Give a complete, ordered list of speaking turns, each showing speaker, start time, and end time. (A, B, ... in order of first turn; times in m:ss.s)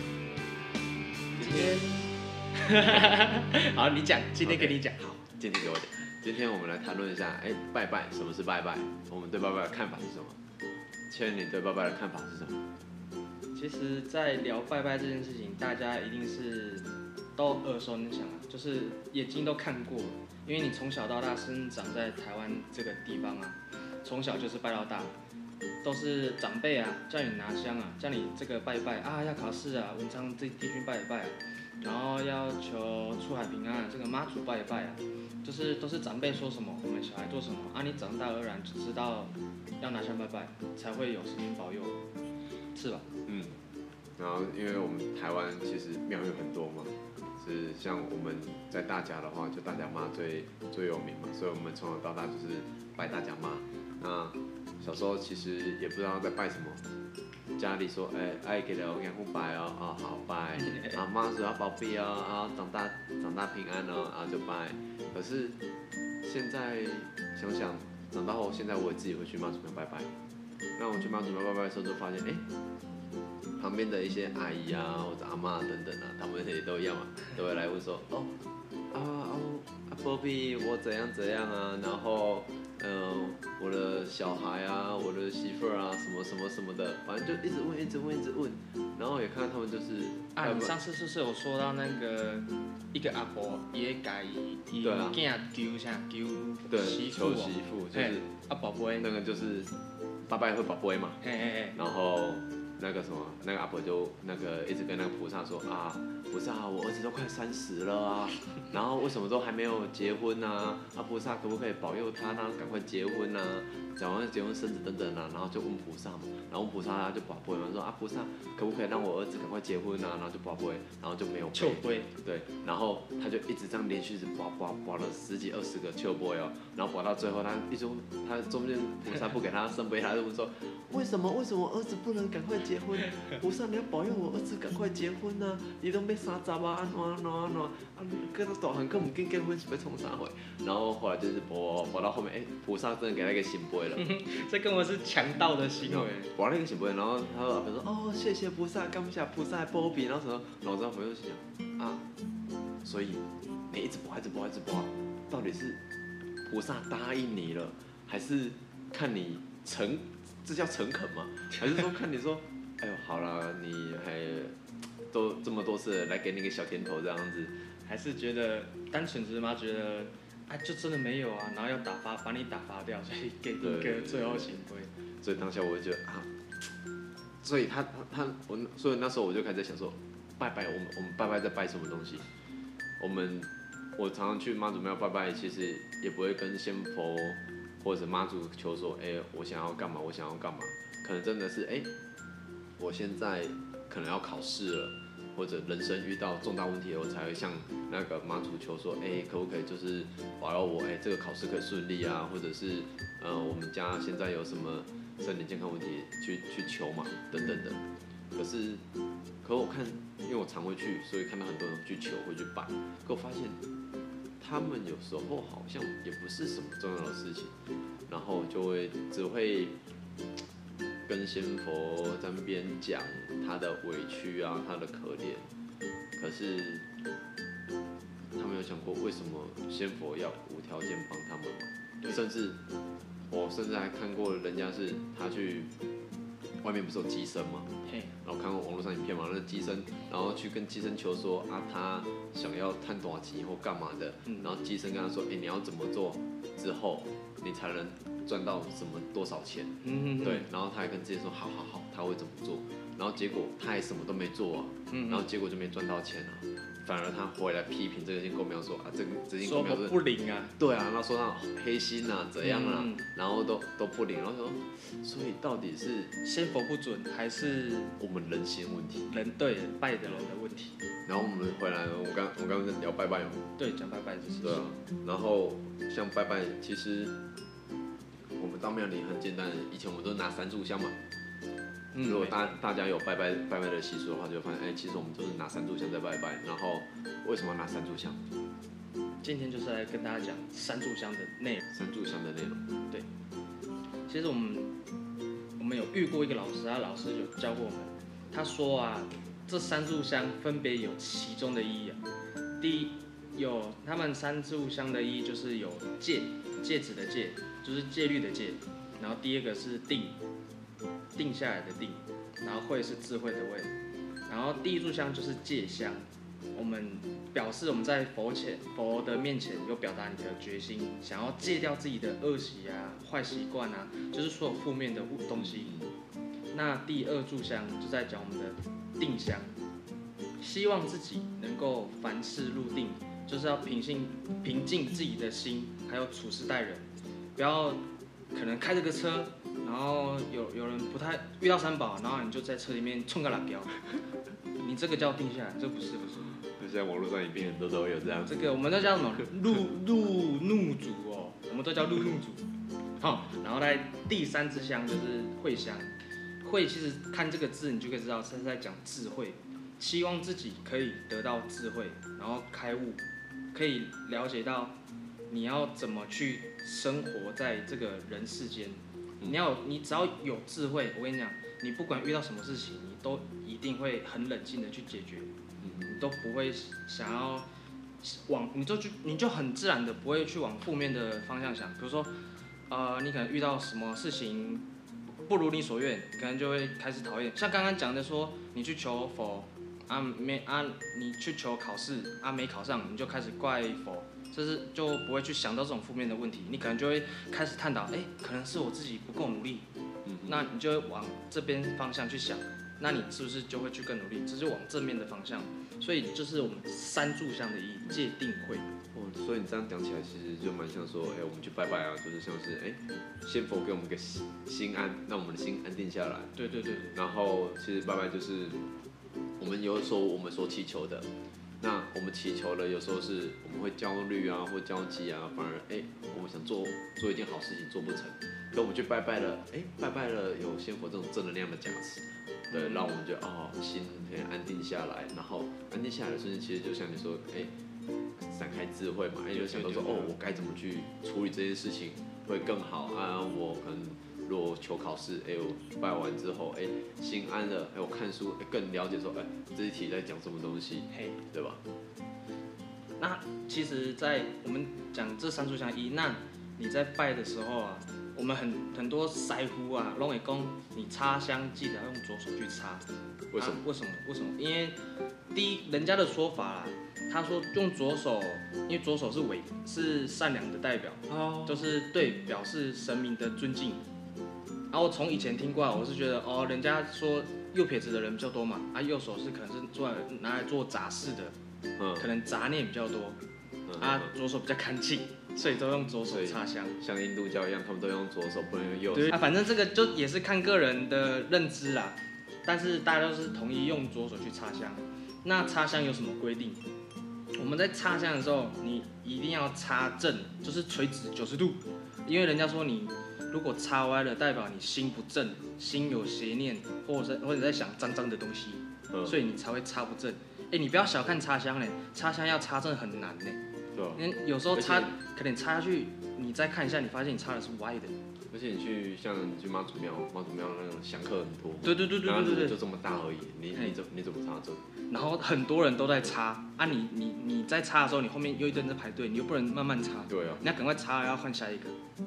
0:01.4-0:01.9 A
0:01.4-0:05.2 B
0:04.4-0:10.4 A
0:11.1-0:12.6 A
0:13.5-0:25.2 B
0:25.8-0:42.0 B
0:42.7-0:43.0 B
0:43.3-0:43.6 A
0:44.2-0:56.8 A
0:57.6-1:05.5 A
1:00.6-1:01.0 B
1:06.2-1:10.1 A
1:10.8-1:12.4 A
1:13.6-1:18.3 A
1:18.9-1:30.7 A
1:30.4-1:39.0 B
1:34.8-1:35.2 A
1:36.7-1:38.3 A
1:39.0-1:39.7 A
1:40.3-1:41.2 A
1:41.2-1:41.8 B
1:41.7-2:24.0 A
2:01.5-2:02.1 B
2:23.9-2:26.3 B
2:25.8-2:32.0 A
2:32.8-2:35.8 A
2:36.4-2:47.6 A
2:47.8-2:54.9 B
2:53.6-2:54.6 A
2:55.2-2:56.3 A
2:57.4-3:02.2 A
3:03.0-3:11.9 A
3:12.8-3:27.8 A
3:27.4-3:27.6 B
3:28.3-3:28.8 A
3:29.4-3:33.6 A
3:34.4-3:37.5 A
3:38.1-3:39.8 A
3:41.1-3:45.5 A
3:46.2-3:46.9 A
3:48.4-3:52.6 A
3:53.3-3:55.7 A
3:56.6-3:57.7 A
3:57.8-3:58.1 B
3:58.2-4:19.9 A
4:04.2-4:04.5 B
4:09.8-4:10.4 B
4:14.9-4:15.2 B
4:19.4-4:20.6 B
4:20.6-4:26.1 A
4:22.4-4:23.1 B
4:26.2-4:28.0 B
4:28.0-4:29.1 A
4:29.1-4:30.8 B
4:31.1-4:33.5 A
4:33.6-4:34.7 B
4:34.4-4:37.2 A
4:38.4-4:41.0 A
4:41.9-4:42.5 B
4:42.1-4:48.2 A
4:49.2-4:51.6 B
4:51.7-4:52.6 A
4:54.1-4:54.7 B
4:55.6-5:02.0 B
5:02.6-5:10.2 B
5:11.2-5:13.7 B
5:14.3-5:25.7 B
5:25.4-5:25.9 A
5:26.5-5:29.5 B
5:30.4-5:43.7 B
5:44.6-5:46.4 B
5:46.4-5:48.3 A
5:48.3-5:52.4 B
5:53.0-5:55.9 B
5:56.4-6:04.8 B
6:05.3-6:15.3 B
6:15.6-6:16.0 A
6:15.9-6:17.5 B
6:18.0-6:22.1 B
6:22.7-6:24.6 B
6:25.2-6:39.7 B
6:40.1-6:40.4 A
6:40.3-6:48.7 B
6:48.9-6:56.3 A
6:56.4-6:57.0 B
6:57.0-6:58.6 A
6:59.4-7:01.1 A
7:01.6-7:17.5 A
7:12.5-7:13.0 B
7:18.2-7:31.6 A
7:19.3-7:20.2 B
7:30.9-7:31.2 B
7:33.0-7:42.8 B
7:43.3-7:43.6 A
7:43.4-7:44.8 B
7:45.3-7:53.8 B
7:51.1-7:51.7 A
7:54.7-8:01.4 B
8:01.8-8:02.1 A
8:02.0-8:03.2 B
8:03.7-8:04.1 A
8:03.8-8:06.8 B
8:06.1-8:09.2 A
8:08.9-8:16.6 B
8:17.3-8:33.4 B
8:28.9-8:29.2 A
8:33.8-8:34.0 A
8:34.0-8:38.0 B
8:34.5-8:34.9 A
8:38.3-8:44.6 A
8:41.6-8:42.6 B
8:44.9-8:51.8 B
8:50.1-8:50.4 A